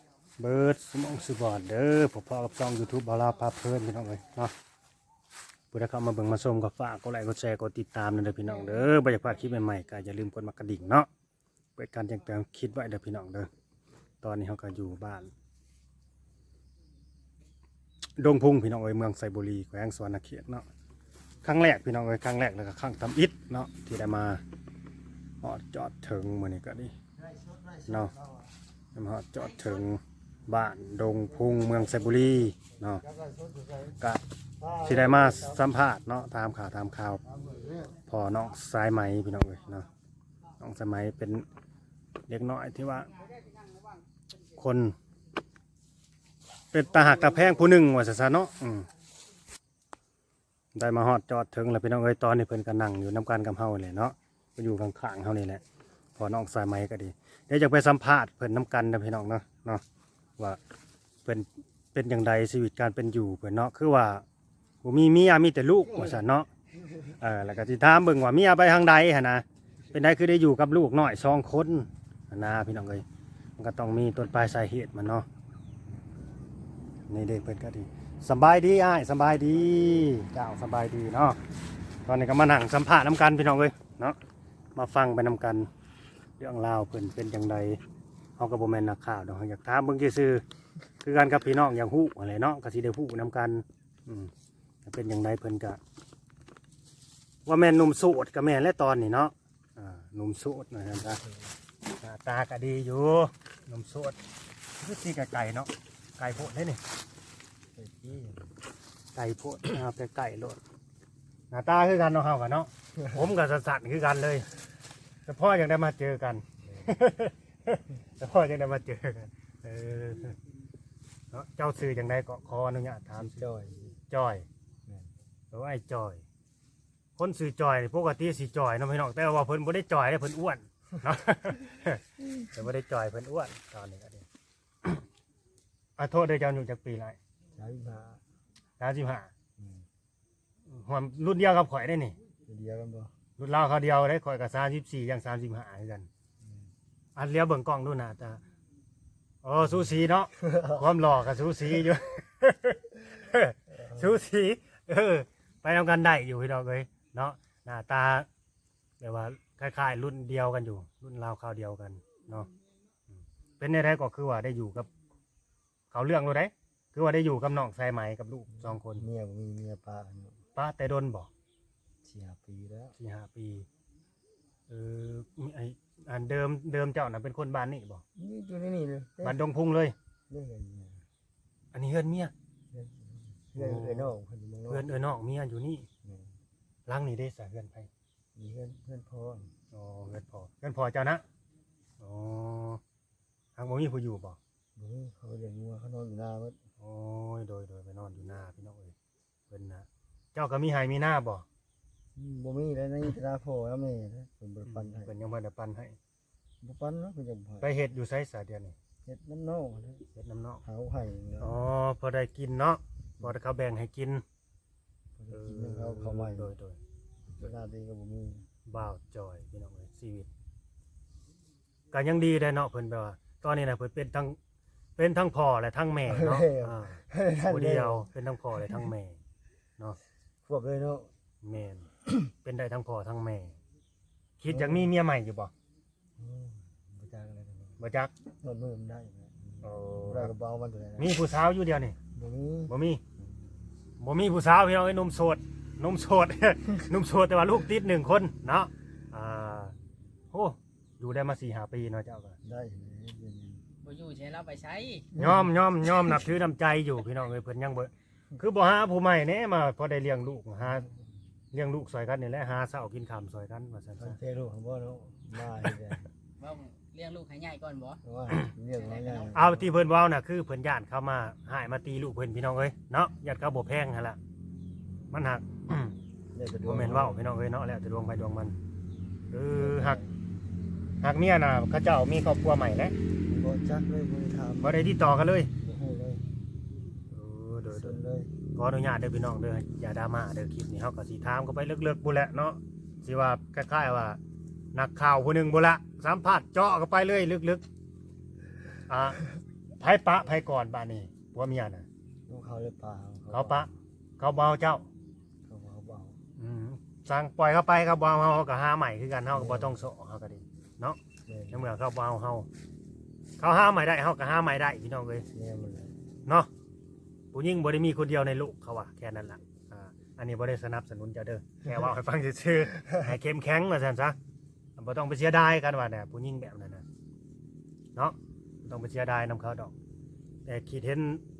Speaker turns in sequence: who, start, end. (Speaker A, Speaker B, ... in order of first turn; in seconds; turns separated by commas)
Speaker A: 0.4-4.5, Speaker A: 5.7-11.1, Speaker A: 11.8-13.5, Speaker A: 14.2-15.3, Speaker A: 18.2-20.6, Speaker A: 21.4-24.4, Speaker A: 25.4-26.9, Speaker A: 27.9-28.1, Speaker A: 28.9-33.0, Speaker B: 33.1-33.9, Speaker A: 34.0-34.2, Speaker B: 34.6-35.6, Speaker A: 34.8-37.2, Speaker B: 37.3-37.8, Speaker A: 38.0-39.9, Speaker A: 40.6-41.4, Speaker A: 42.3-43.2, Speaker A: 44.5-45.0, Speaker A: 46.7-48.9, Speaker A: 50.7-55.6, Speaker A: 56.2-59.8, Speaker A: 61.2-64.2, Speaker A: 64.8-66.5, Speaker A: 67.2-73.0, Speaker A: 73.6-75.2, Speaker A: 77.1-81.4, Speaker A: 82.0-84.2, Speaker A: 84.8-85.7, Speaker A: 86.4-87.8, Speaker A: 88.4-90.4, Speaker A: 91.0-94.3, Speaker A: 94.8-95.8, Speaker A: 97.5-101.2, Speaker B: 101.0-101.5, Speaker A: 101.9-104.2, Speaker A: 104.8-106.8, Speaker B: 107.8-108.5, Speaker A: 109.1-110.6, Speaker A: 111.5-114.5, Speaker A: 115.2-120.4, Speaker B: 116.6-116.9, Speaker A: 121.3-123.4, Speaker B: 123.1-124.0, Speaker A: 124.1-124.5, Speaker A: 125.5-126.2, Speaker A: 127.2-134.2, Speaker A: 136.0-137.2, Speaker B: 137.6-138.2, Speaker A: 138.8-139.3, Speaker B: 139.6-139.8, Speaker A: 140.7-142.2, Speaker B: 142.5-143.1, Speaker A: 143.4-146.1, Speaker B: 146.4-146.7, Speaker A: 147.2-148.4, Speaker A: 149.4-158.3, Speaker B: 150.4-150.8, Speaker A: 159.0-162.5, Speaker A: 163.6-164.9, Speaker A: 165.9-169.1, Speaker B: 168.6-170.4, Speaker A: 170.5-171.3, Speaker B: 172.0-172.9, Speaker A: 173.0-173.7, Speaker A: 174.7-178.0, Speaker B: 178.2-179.4, Speaker A: 179.2-179.9, Speaker B: 180.3-181.0, Speaker A: 181.7-182.3, Speaker B: 182.7-184.9, Speaker A: 183.5-184.1, Speaker A: 184.7-185.9, Speaker B: 186.0-186.3, Speaker A: 186.9-187.9, Speaker B: 188.3-189.5, Speaker A: 189.7-191.2, Speaker A: 192.0-192.8, Speaker A: 193.6-194.4, Speaker B: 194.8-196.6, Speaker A: 196.8-198.9, Speaker A: 199.5-201.4, Speaker B: 202.2-205.1, Speaker A: 204.6-206.0, Speaker B: 206.6-207.7, Speaker A: 207.6-208.8, Speaker B: 209.0-210.0, Speaker A: 210.1-210.6, Speaker B: 210.6-211.6, Speaker A: 211.4-214.2, Speaker B: 215.2-216.5, Speaker A: 215.3-216.8, Speaker B: 217.3-218.4, Speaker A: 218.7-220.3, Speaker A: 221.9-224.4, Speaker A: 225.0-229.2, Speaker B: 226.1-228.1, Speaker B: 230.4-231.1, Speaker A: 231.4-231.9, Speaker A: 232.4-233.6, Speaker A: 234.4-235.5, Speaker B: 234.5-234.9, Speaker B: 236.2-237.8, Speaker A: 237.8-238.1, Speaker B: 238.4-241.2, Speaker A: 239.6-240.3, Speaker A: 241.0-242.0, Speaker B: 242.1-243.4, Speaker A: 242.7-243.0, Speaker A: 244.0-249.7, Speaker A: 250.3-252.4, Speaker B: 252.4-253.6, Speaker C: 253.8-255.1, Speaker A: 255.1-260.9, Speaker B: 255.1-255.4, Speaker A: 261.5-264.2, Speaker B: 264.0-266.1, Speaker C: 266.4-268.0, Speaker B: 268.0-269.7, Speaker C: 268.9-269.3, Speaker A: 269.3-274.2, Speaker A: 275.1-275.9, Speaker B: 276.3-277.2, Speaker A: 276.6-278.6, Speaker A: 279.3-280.0, Speaker B: 279.5-280.2, Speaker A: 281.0-282.9, Speaker B: 283.3-284.9, Speaker A: 284.6-285.5, Speaker B: 285.6-286.2, Speaker A: 287.1-288.0, Speaker B: 287.7-288.3, Speaker A: 288.5-294.2, Speaker A: 294.7-297.6, Speaker A: 298.9-299.2, Speaker A: 299.8-301.9, Speaker B: 302.3-303.7, Speaker A: 303.3-304.9, Speaker B: 305.5-306.1, Speaker A: 306.4-311.0, Speaker B: 309.3-309.8, Speaker B: 311.3-311.7, Speaker A: 311.5-312.5, Speaker A: 313.4-315.2, Speaker B: 315.3-316.0, Speaker A: 317.3-324.2, Speaker A: 324.8-326.8, Speaker A: 327.9-329.7, Speaker A: 330.4-331.2